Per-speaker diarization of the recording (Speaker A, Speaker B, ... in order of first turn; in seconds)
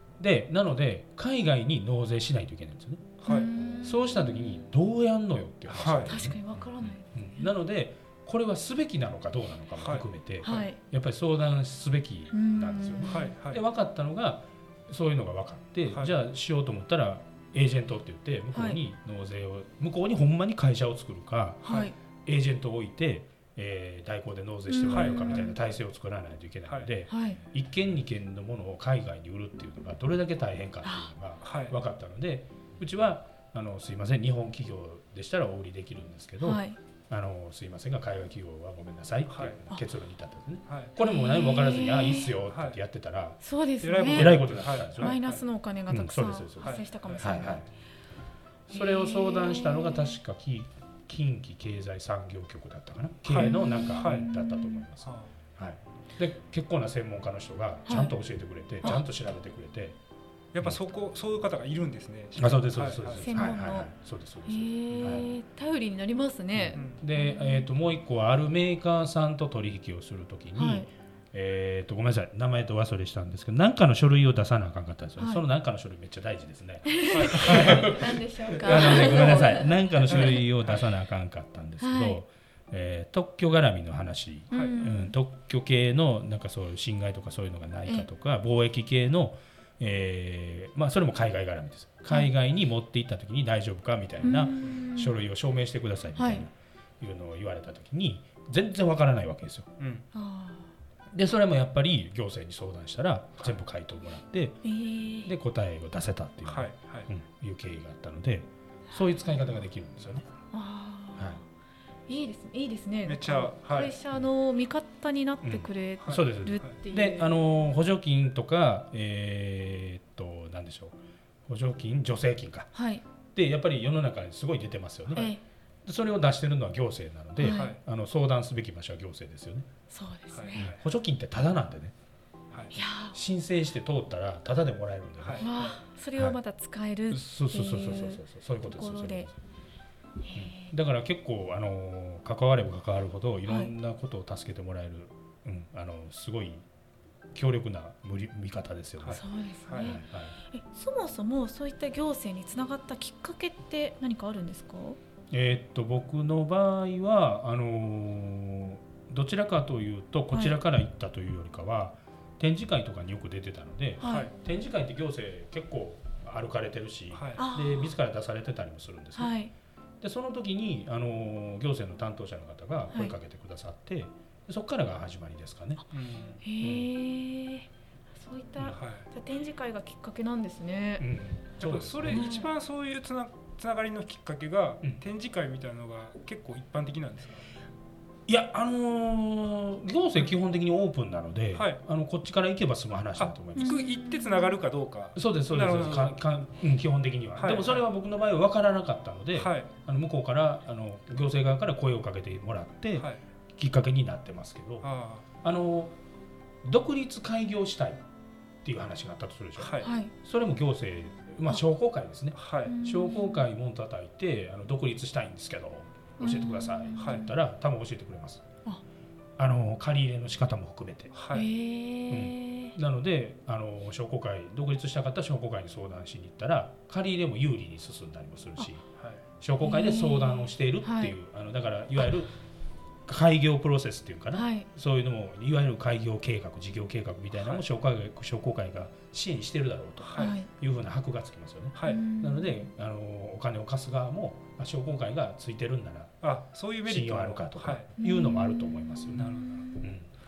Speaker A: 0.2-3.2, 3.8-6.4, 7.1-43.4, 44.0-45.2, 45.9-47.7, 48.7-60.0, 62.3-65.3, 66.5-99.7, 101.1-104.7, 105.2-110.2, 115.4-122.7, 123.3-125.3, 125.8-129.7, 130.6-131.9, 133.1-135.6, 137.1-139.3, 140.3-146.6, 147.3-149.2, 149.8-150.3, 155.3-169.3, 170.0-175.9, 176.6-176.9, 181.0-182.4, 188.3-193.8, 195.2-204.9, 205.4-205.9, 206.6-208.0, 208.6-218.4, 219.4-221.1, 222.1-228.9, 229.4-232.3, 233.1-246.2, 246.8-250.1
Speaker B: 3.2-3.5, 5.7-6.2, 9.8-10.7, 13.1-13.6, 24.9-25.5, 31.4-31.8, 39.3-39.6, 40.7-40.9, 42.5-42.8, 43.8-45.4, 46.6-47.3, 53.2-54.2, 60.5-63.5, 64.9-65.2, 66.7-67.0, 77.1-77.9, 78.7-79.2, 80.2-80.8, 84.5-84.8, 99.8-100.0, 106.5-107.1, 113.1-113.9, 116.0-116.8, 127.4-127.8, 130.3-130.8, 135.2-135.5, 149.0-150.0, 164.0-164.3, 167.1-167.4, 175.9-176.4, 178.8-179.1, 181.6-187.5, 191.5-191.8, 193.2-196.2, 197.4-197.8, 199.4-199.7, 204.8-205.2, 209.6-209.9, 212.3-212.7, 217.0-217.2, 221.1-221.5, 237.3-237.6, 240.0-240.3, 241.8-242.0, 246.2-247.9, 249.1-249.6
Speaker C: 3.2-4.7, 6.0-7.5, 10.4-10.8, 12.3-13.3, 18.5-18.8, 21.6-21.9, 24.7-25.6, 27.1-27.4, 30.8-31.1, 36.4-36.8, 41.0-42.3, 43.4-44.4, 45.0-47.6, 48.7-50.2, 53.4-54.9, 57.9-58.1, 63.2-63.9, 64.5-67.7, 70.6-70.9, 75.2-75.4, 77.0-80.4, 81.8-82.2, 84.5-85.1, 94.2-95.2, 96.2-96.5, 100.1-100.7, 104.6-105.3, 110.5-111.4, 112.1-117.4, 122.7-123.0, 125.1-125.4, 127.4-127.7, 129.9-130.7, 132.7-133.2, 135.4-139.3, 140.2-140.7, 149.1-155.0, 160.3-160.6, 164.0-164.3, 167.4-167.9, 169.2-169.5, 172.9-173.1, 176.4-181.1, 182.1-182.5, 193.6-194.6, 209.8-210.1, 212.6-213.5, 216.2-217.3, 221.3-222.7, 229.6-231.1, 234.3-234.7, 240.2-240.5, 241.8-242.7, 248.0-249.8